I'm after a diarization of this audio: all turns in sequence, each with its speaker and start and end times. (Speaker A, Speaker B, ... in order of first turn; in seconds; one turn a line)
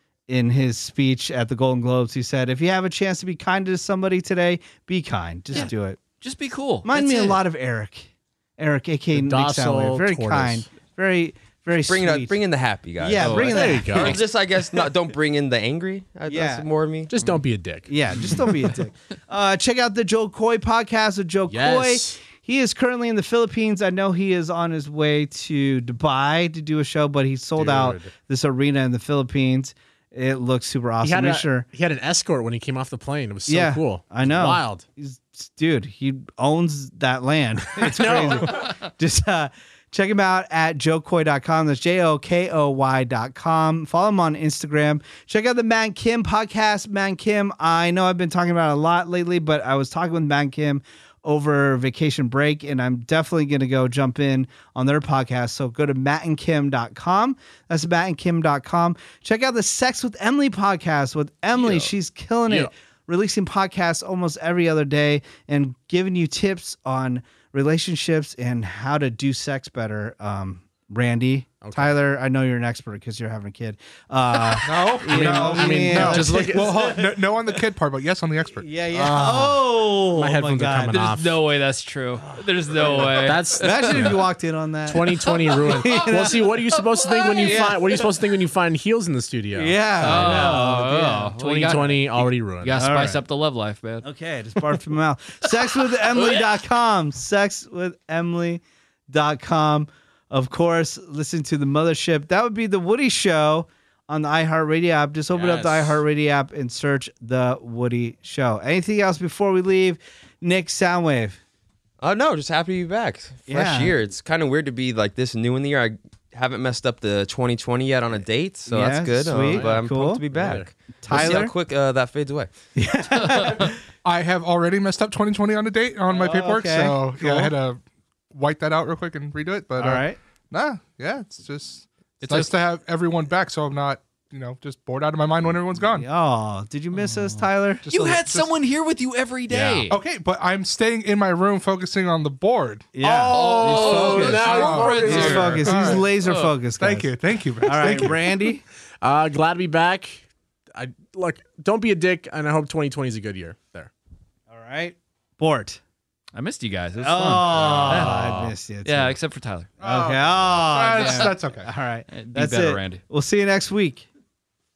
Speaker A: 0.3-6.0
Speaker B: 5.5-7.4
Speaker A: 6.8-12.3
Speaker C: 9.1-10.7
Speaker D: 11.8-17.1
Speaker A: 13.0-14.2
Speaker B: 13.2-13.6
Speaker C: 13.4-14.2
Speaker A: 16.3-16.6
Speaker C: 17.1-18.7
Speaker A: 17.9-31.6
Speaker C: 21.5-22.2
Speaker C: 27.6-28.1
Speaker C: 31.0-34.9
Speaker A: 33.5-77.2
Speaker C: 37.8-38.7
Speaker C: 61.5-61.9
Speaker C: 71.6-72.0
Speaker E: 74.6-79.4
Speaker C: 75.1-76.7
Speaker A: 78.6-81.0
Speaker C: 78.9-79.6
Speaker C: 80.1-81.3
Speaker B: 80.9-84.1
Speaker A: 82.2-88.3
Speaker C: 83.0-84.2
Speaker C: 84.9-90.7
Speaker A: 89.5-92.2
Speaker B: 90.0-94.0
Speaker C: 91.4-92.8
Speaker A: 92.8-93.2
Speaker A: 94.0-111.4
Speaker C: 105.3-106.0
Speaker D: 112.0-122.5
Speaker A: 113.5-113.9
Speaker A: 118.7-120.2
Speaker C: 119.4-120.7
Speaker A: 121.0-121.5
Speaker A: 122.8-123.8
Speaker E: 124.0-127.8
Speaker A: 126.1-127.5
Speaker E: 128.3-136.1
Speaker A: 129.8-130.2
Speaker B: 132.2-132.5
Speaker A: 135.9-137.9
Speaker B: 137.3-140.0
Speaker E: 137.8-138.5
Speaker E: 139.5-142.9
Speaker A: 142.9-148.6
Speaker C: 143.0-145.7
Speaker B: 143.3-146.5
Speaker E: 144.3-146.1
Speaker E: 146.8-148.4
Speaker C: 149.0-153.9
Speaker A: 154.5-155.8
Speaker B: 156.3-158.3
Speaker A: 157.0-159.1
Speaker C: 157.5-158.5
Speaker B: 158.8-159.7
Speaker E: 159.8-161.7
Speaker A: 159.8-164.1
Speaker B: 161.0-161.3
Speaker B: 162.1-163.0